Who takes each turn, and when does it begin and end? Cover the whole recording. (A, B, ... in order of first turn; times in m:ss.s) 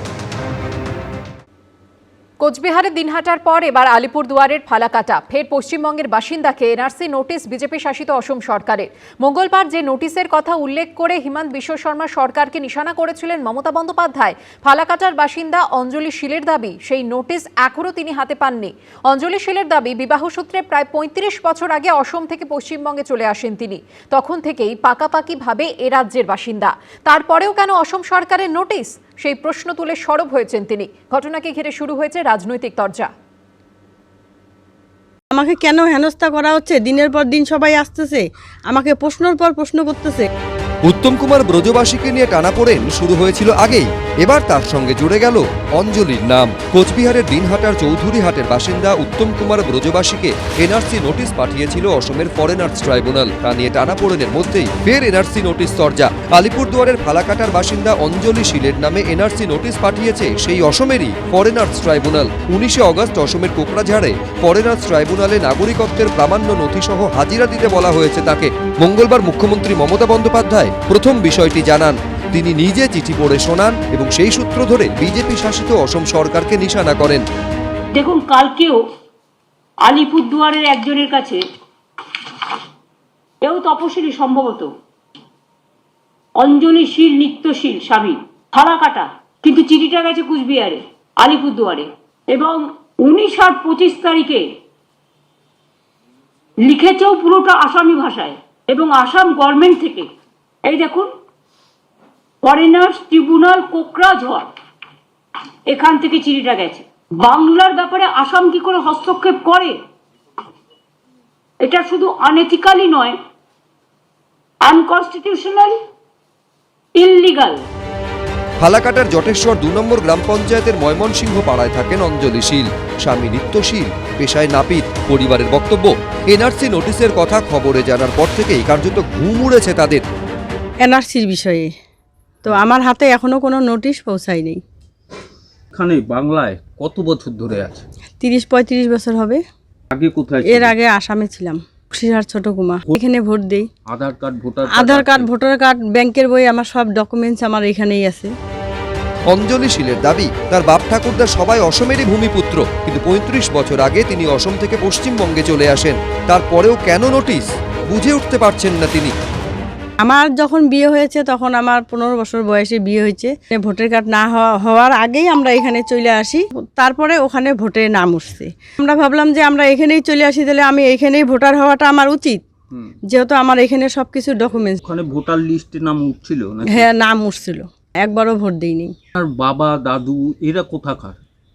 0:02.4-0:33.1 A
0:35.3-0:40.3 B
0:40.8-1:17.2 C
1:17.9-1:18.8 D
1:19.8-1:21.4 D
1:23.4-1:24.7 D
1:26.4-1:34.4 D
1:36.6-1:40.1 D
1:40.6-1:41.1 D
1:42.4-1:44.5 D
1:45.7-1:49.8 D
1:51.6-1:53.2 D
1:54.6-1:55.7 D
1:57.0-1:57.6 D
1:58.6-2:10.0 C
2:10.8-2:11.7 B
2:12.4-2:14.6 B
2:15.7-2:17.8 E
2:18.2-2:19.4 B
2:19.9-2:20.7 E
2:20.4-2:23.6 B
2:23.8-2:25.3 E
2:24.7-2:28.3 B
2:29.3-2:39.1 C
2:40.0-2:52.4 B
2:53.1-2:54.8 B
2:54.8-2:56.9 E
2:56.7-2:58.9 B
2:59.1-3:01.2 E